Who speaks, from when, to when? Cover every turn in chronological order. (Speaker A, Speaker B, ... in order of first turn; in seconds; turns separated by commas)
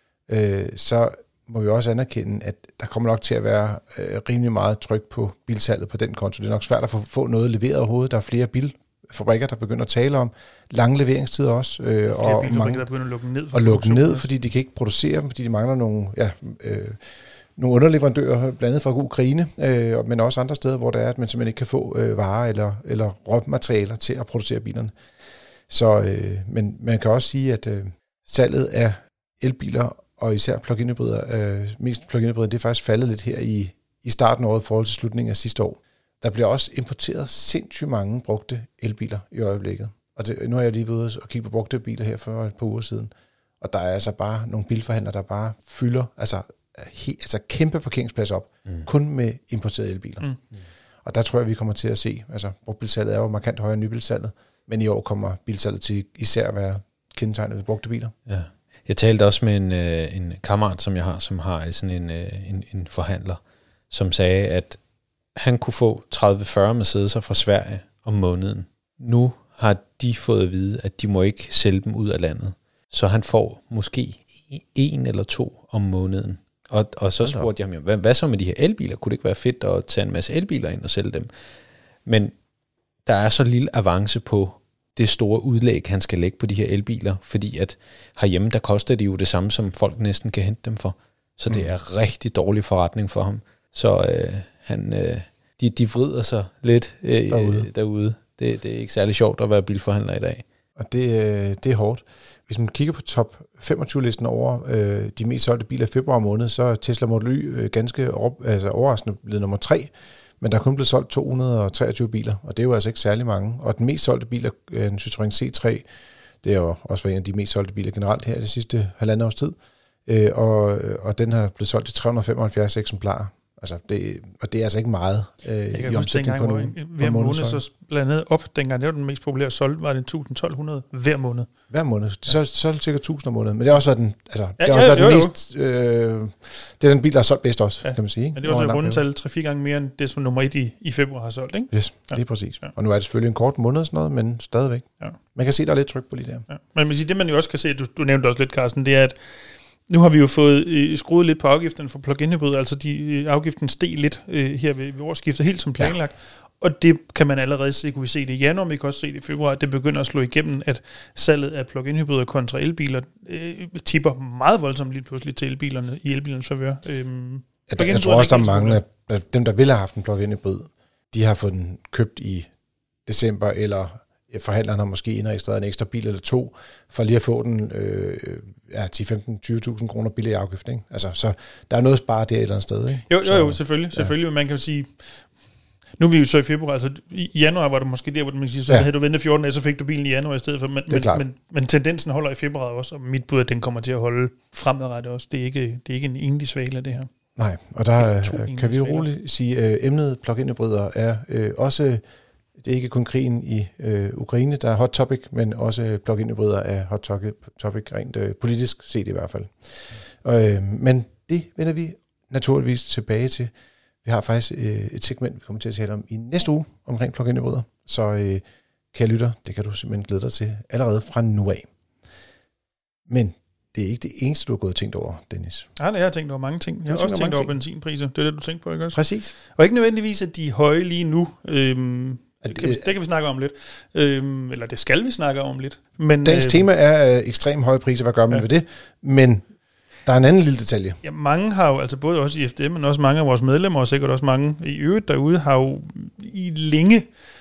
Speaker A: 0.3-12.8, Speaker B: 12.1-14.3, Speaker A: 13.5-24.9, Speaker A: 25.7-50.4, Speaker A: 51.0-58.1, Speaker C: 58.3-64.8, Speaker C: 65.3-81.3, Speaker A: 77.2-77.5, Speaker C: 82.0-82.3, Speaker C: 83.0-100.4, Speaker A: 97.3-97.7, Speaker A: 100.8-115.8, Speaker A: 116.4-127.6, Speaker B: 125.7-131.7, Speaker A: 131.7-139.0, Speaker B: 134.6-135.3, Speaker B: 137.8-142.7, Speaker A: 141.7-146.5, Speaker B: 146.5-149.3, Speaker B: 149.8-168.8, Speaker A: 167.7-172.5, Speaker A: 173.1-184.1, Speaker B: 183.1-185.3, Speaker B: 186.0-197.1, Speaker A: 190.9-191.2, Speaker A: 197.4-202.0, Speaker B: 198.0-199.1, Speaker A: 202.6-213.5, Speaker A: 214.0-221.7, Speaker A: 223.1-225.7, Speaker B: 225.8-236.7, Speaker A: 226.9-227.5, Speaker A: 228.9-229.3, Speaker A: 232.4-232.8, Speaker A: 236.2-239.5, Speaker A: 240.0-241.0, Speaker B: 241.0-247.1